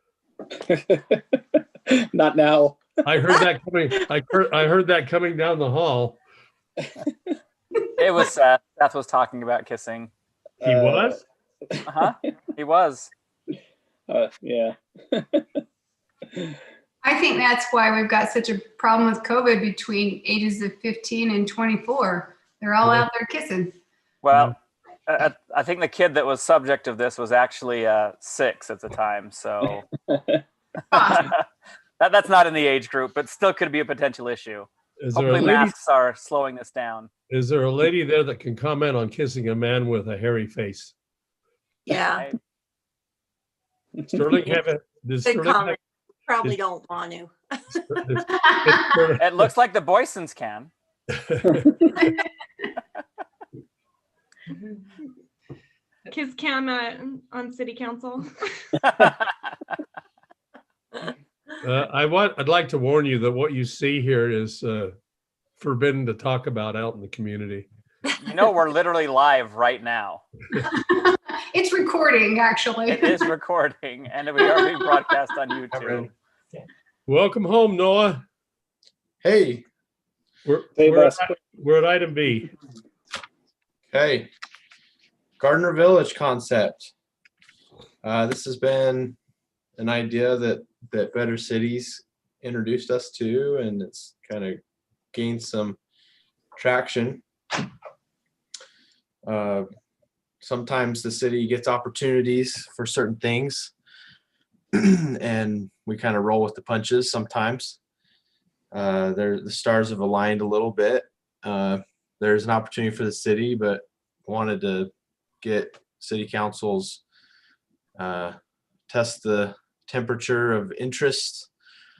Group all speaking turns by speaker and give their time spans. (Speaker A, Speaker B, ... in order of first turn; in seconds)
Speaker A: 0.5-3.4, 10.6-11.2, 14.1-15.6, 30.1-30.4, 80.8-81.3
Speaker B: 3.0-6.2, 10.6-11.2, 35.0-35.7, 37.3-40.9, 44.0-45.8, 47.9-49.5, 51.2-51.7, 61.6-64.9, 65.6-67.7, 77.1-78.2, 80.4-82.5
Speaker C: 8.0-10.1, 11.8-13.1, 24.2-24.6, 25.1-29.9, 31.0-31.4, 32.0-37.1, 49.2-50.7, 58.8-59.2, 68.2-70.2, 72.9-76.1
Speaker D: 17.0-23.8, 30.9-31.3, 48.4-48.9, 70.7-73.3
Speaker E: 41.9-42.2, 45.2-47.3
Speaker F: 56.1-58.3
Speaker G: 75.7-76.1, 79.2-79.6, 83.9-84.3, 85.4-86.9, 88.0-89.2, 89.8-94.6, 95.1-95.8, 96.5-97.2, 99.2-99.7, 100.4-103.7, 104.8-107.8, 108.7-114.9, 115.4-117.0, 118.0-118.3, 118.9-121.5